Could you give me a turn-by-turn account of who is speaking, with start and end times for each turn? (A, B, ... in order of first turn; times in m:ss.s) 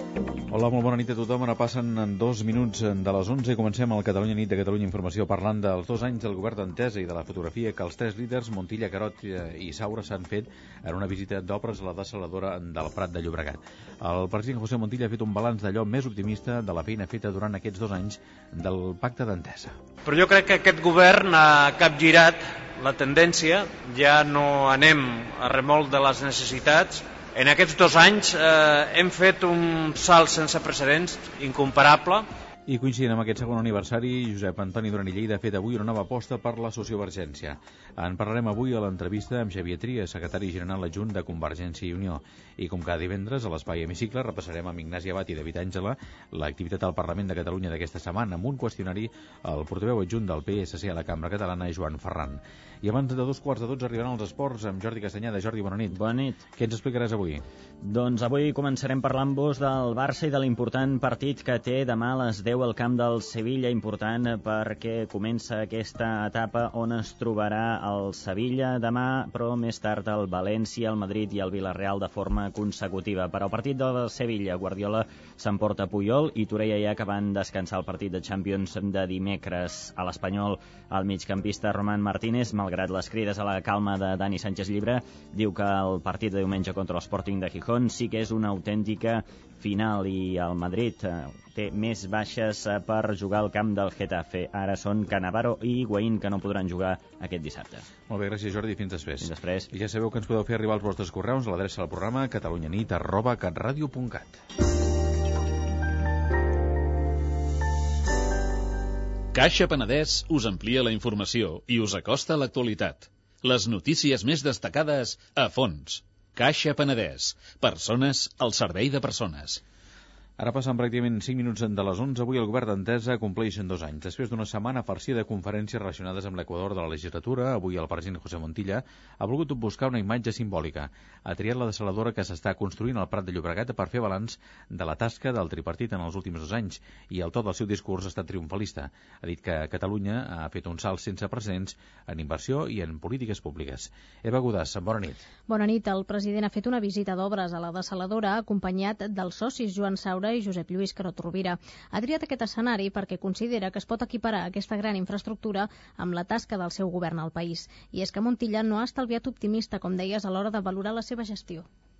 0:00.5-0:19.8 A
0:20.0-0:32.3 B
0:32.7-0:56.0 A
0:55.9-0:56.4 C
0:56.6-0:57.4 A
0:57.8-1:37.8 C
1:38.1-1:44.4 A
1:39.2-1:39.7 C
1:49.3-1:59.6 D
2:00.4-2:25.2 A
2:25.5-2:41.7 E